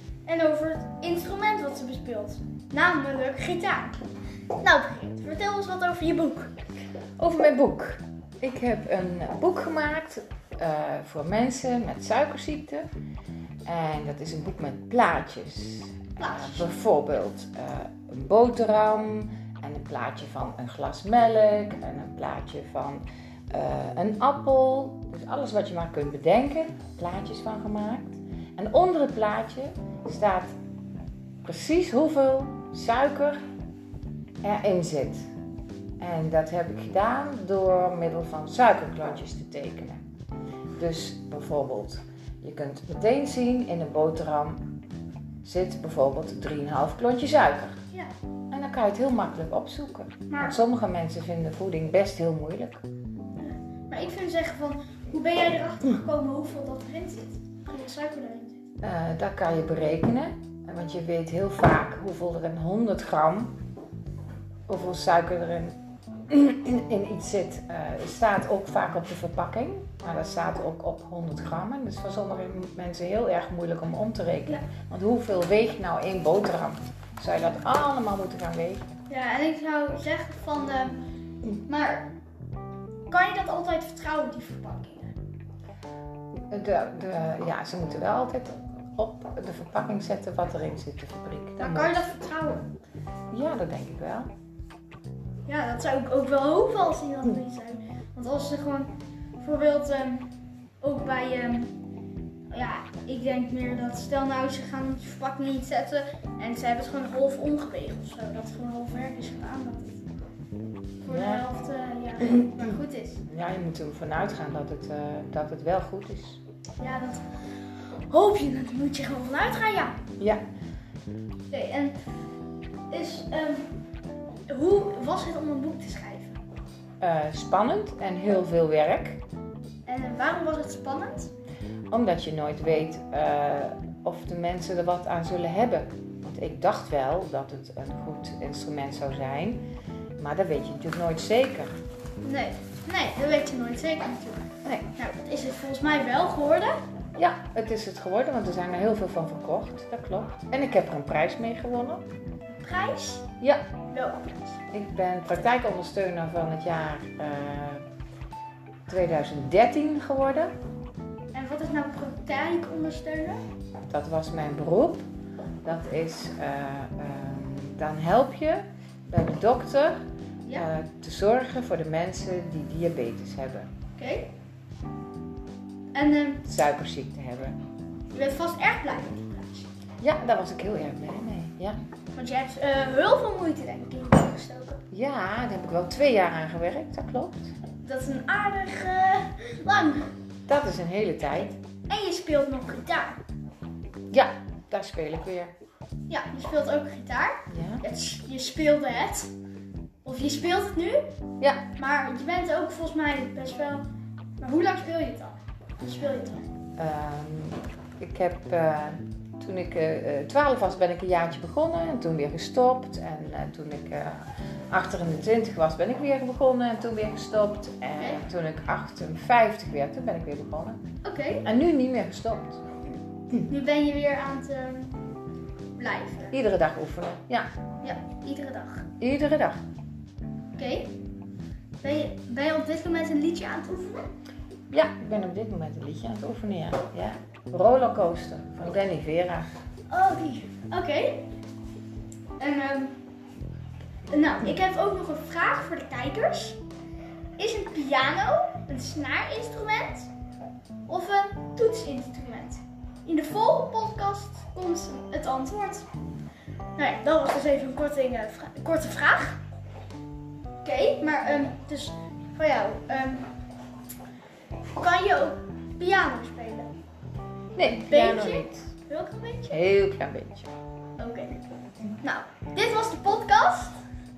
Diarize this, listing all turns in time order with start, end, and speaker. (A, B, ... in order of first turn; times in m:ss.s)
0:00.2-0:04.0 A
0:04.6-0:06.5 A
0:07.2-0:12.8 B
0:13.7-0:30.5 B
0:16.2-0:16.7 A
0:31.4-0:33.4 B
0:34.4-0:35.2 B
0:36.0-0:40.0 B
0:40.8-0:44.7 B
0:45.4-0:47.8 B
0:48.5-0:52.8 B
0:50.3-0:50.6 A
0:53.4-0:58.7 A
0:58.8-1:03.6 B
1:04.7-1:18.8 B
1:19.1-1:22.2 A
1:23.1-1:25.1 A
1:26.5-1:32.1 B
1:31.6-1:32.7 A
1:33.3-1:34.3 B
1:35.4-1:40.3 A
1:40.8-1:41.8 A
1:42.5-1:50.0 A
1:51.0-1:53.2 A
1:51.1-1:51.4 B
1:52.3-1:52.6 B
1:53.3-1:56.4 B
1:56.8-1:57.2 A
1:58.1-2:00.0 A
2:01.5-2:02.0 A
2:02.9-2:03.7 A
2:04.5-2:06.4 A
2:07.0-2:09.2 B
2:09.8-2:11.3 A
2:11.9-2:19.7 B
2:20.2-2:21.7 B
2:22.2-2:24.4 A
2:24.9-2:26.8 A
2:27.2-2:32.0 B
2:32.6-2:33.3 A
2:33.9-2:34.6 A
2:34.7-2:37.8 B
2:38.9-2:40.5 B
2:41.3-2:43.4 A
2:43.9-2:45.0 B
2:45.6-2:50.0 B
2:50.5-2:53.7 B
2:54.0-2:54.3 A
2:55.9-2:56.4 A
2:56.4-2:57.6 B
2:58.1-2:59.7 A
3:00.0-3:01.8 B
3:02.2-3:04.8 A
3:04.9-3:07.5 B
3:07.8-3:10.1 A
3:10.5-3:11.6 B
3:11.9-3:13.2 A
3:14.1-3:15.5 B
3:16.1-3:19.3 A
3:17.5-3:17.8 B
3:20.0-3:21.1 A
3:21.7-3:23.8 A
3:24.4-3:26.5 A
3:26.8-3:34.2 B
3:34.7-3:40.8 B
3:41.0-3:41.5 A
3:41.4-3:42.7 B
3:43.5-3:45.0 A
3:45.8-3:46.3 A
3:46.3-3:47.5 B
3:47.8-3:48.9 A
3:49.0-3:49.6 B
3:50.5-3:51.0 A
3:51.8-3:54.1 A
3:54.7-3:59.5 B
3:59.9-4:01.3 A
4:02.4-4:03.0 A
4:04.1-4:06.6 A
4:07.4-4:10.1 A
4:10.9-4:15.9 A
4:16.8-4:19.4 A
4:20.6-4:23.3 A
4:24.8-4:26.7 A
4:27.6-4:28.7 B
4:27.8-4:29.6 A
4:29.5-4:30.5 B
4:31.0-4:31.4 A
4:32.0-4:33.8 A